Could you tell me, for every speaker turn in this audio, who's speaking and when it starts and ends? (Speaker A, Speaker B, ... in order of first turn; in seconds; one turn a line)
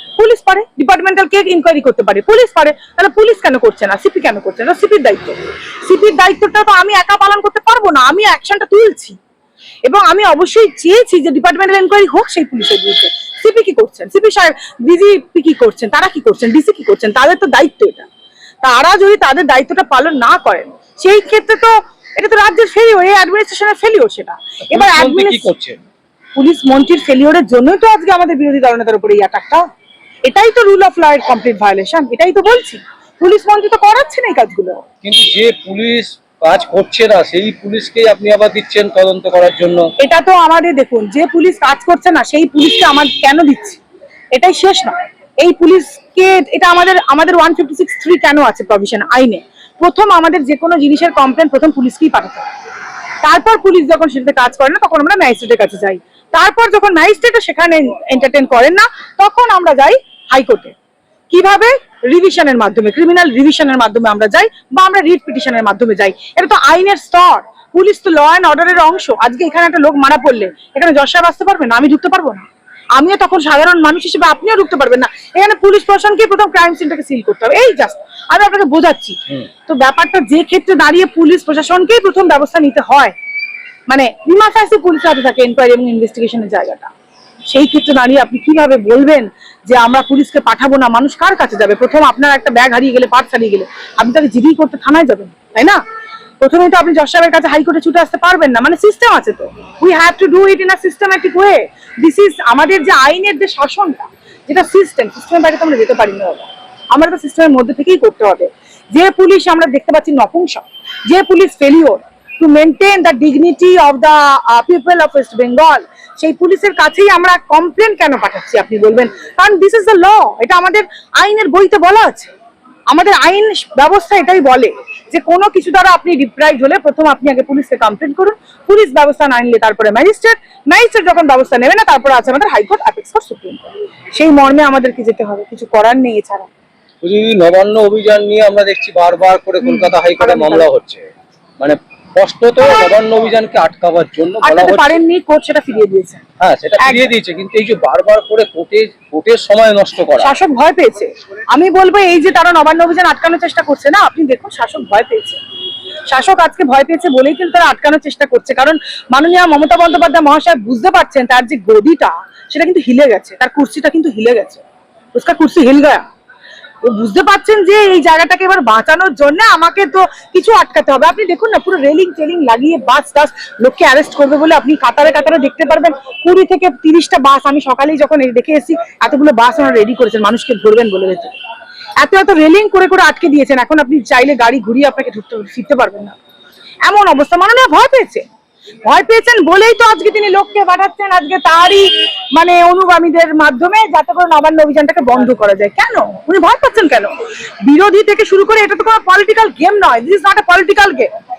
Speaker A: 0.2-9.2
Speaker A: 9.8-18.1
Speaker A: 18.6-25.5
Speaker B: 24.6-25.8
Speaker A: 26.4-29.6
Speaker A: 30.2-34.8
Speaker B: 35.0-39.9
Speaker A: 40.0-43.8
Speaker A: 44.3-52.5
Speaker A: 53.2-60.7
Speaker A: 61.3-83.1
Speaker A: 83.9-86.9
Speaker A: 87.5-95.8
Speaker A: 96.4-122.3
Speaker A: 122.9-136.5
Speaker B: 137.0-141.0
Speaker A: 139.6-140.7
Speaker B: 141.6-145.0
Speaker A: 142.6-142.9
Speaker A: 144.4-146.2
Speaker B: 146.4-150.4
Speaker A: 146.8-147.1
Speaker A: 150.2-155.4
Speaker A: 156.1-164.6
Speaker A: 165.1-166.0
Speaker A: 166.8-181.3
Speaker A: 182.0-186.2
Speaker A: 186.9-188.2
Speaker A: 188.8-197.1
Speaker A: 197.6-201.1